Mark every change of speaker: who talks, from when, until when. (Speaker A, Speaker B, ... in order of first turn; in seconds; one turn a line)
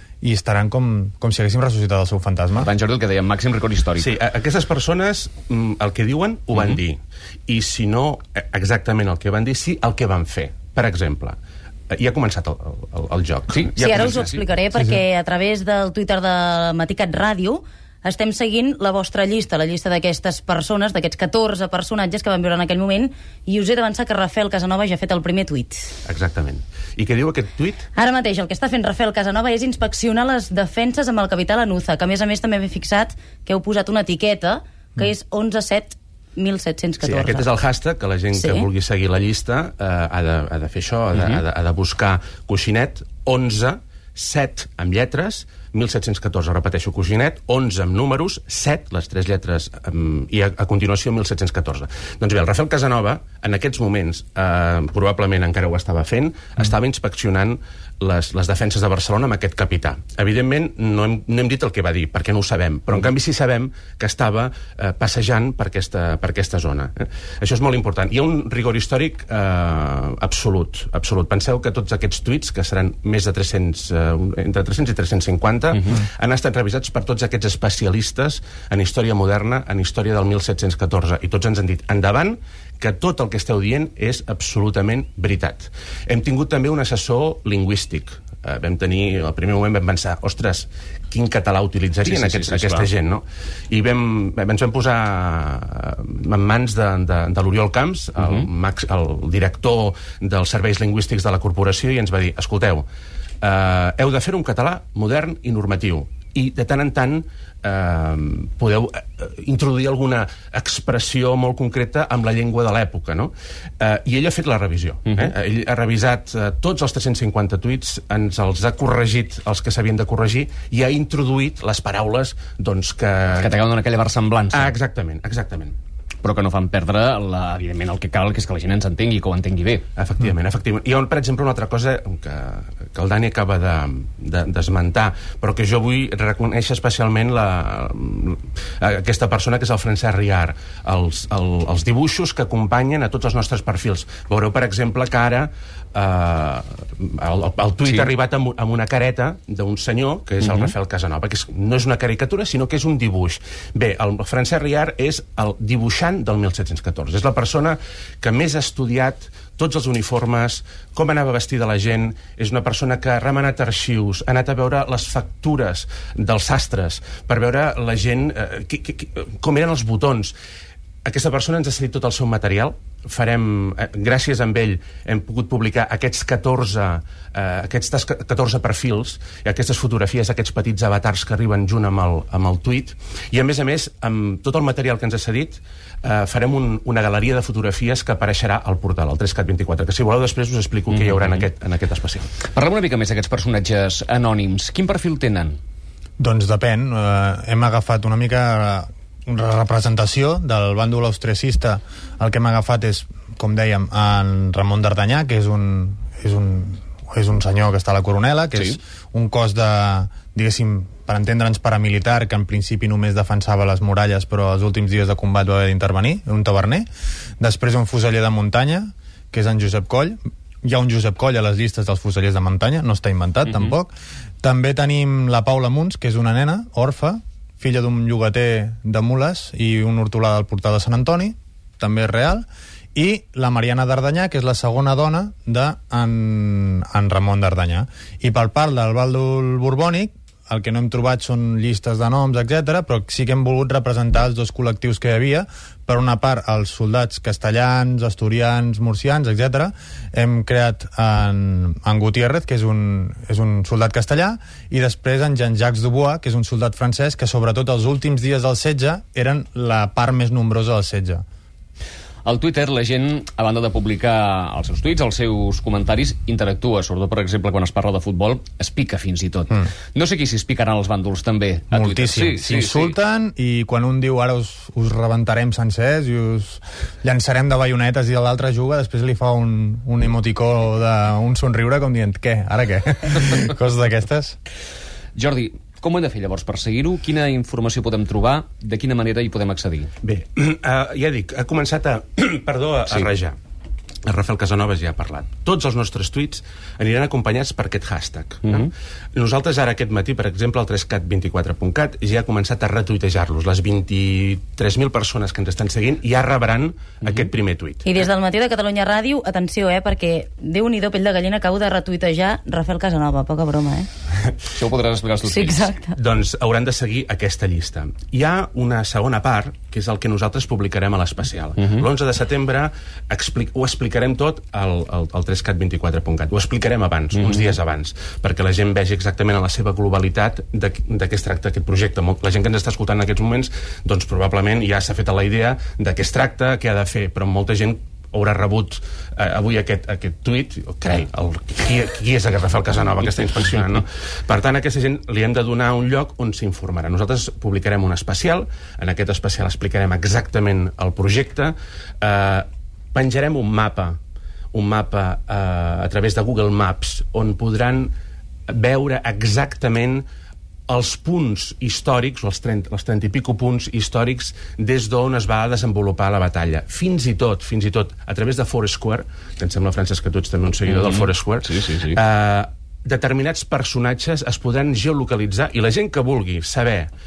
Speaker A: 0.2-2.7
Speaker B: 2.5-4.1
Speaker C: 4.0-11.4
Speaker C: 11.9-14.3
Speaker B: 13.5-14.5
Speaker D: 13.8-25.9
Speaker C: 26.1-27.9
Speaker D: 27.9-37.5
Speaker C: 37.0-102.8
Speaker D: 38.3-38.7
Speaker B: 75.7-76.0
Speaker B: 92.0-92.9
Speaker B: 98.2-98.5
Speaker C: 103.4-123.5
Speaker B: 115.1-115.3
Speaker B: 123.3-124.7
Speaker C: 124.5-125.7
Speaker B: 126.2-129.8
Speaker C: 129.9-170.3
Speaker B: 150.4-150.7
Speaker C: 171.0-192.3
Speaker B: 190.9-191.4
Speaker B: 192.5-195.6
Speaker A: 196.2-216.9
Speaker A: 217.4-261.2
Speaker B: 223.5-223.7
Speaker B: 262.2-272.9
Speaker A: 271.7-284.4
Speaker B: 285.1-289.9
Speaker C: 290.0-293.3
Speaker C: 294.0-307.9
Speaker B: 298.4-298.7
Speaker B: 307.0-307.3
Speaker D: 307.8-313.9
Speaker B: 314.5-315.7
Speaker D: 315.2-315.9
Speaker C: 315.9-354.0
Speaker B: 321.6-321.9
Speaker B: 327.1-327.5
Speaker C: 354.5-357.9
Speaker C: 358.5-360.0
Speaker C: 360.7-376.9
Speaker B: 370.7-372.0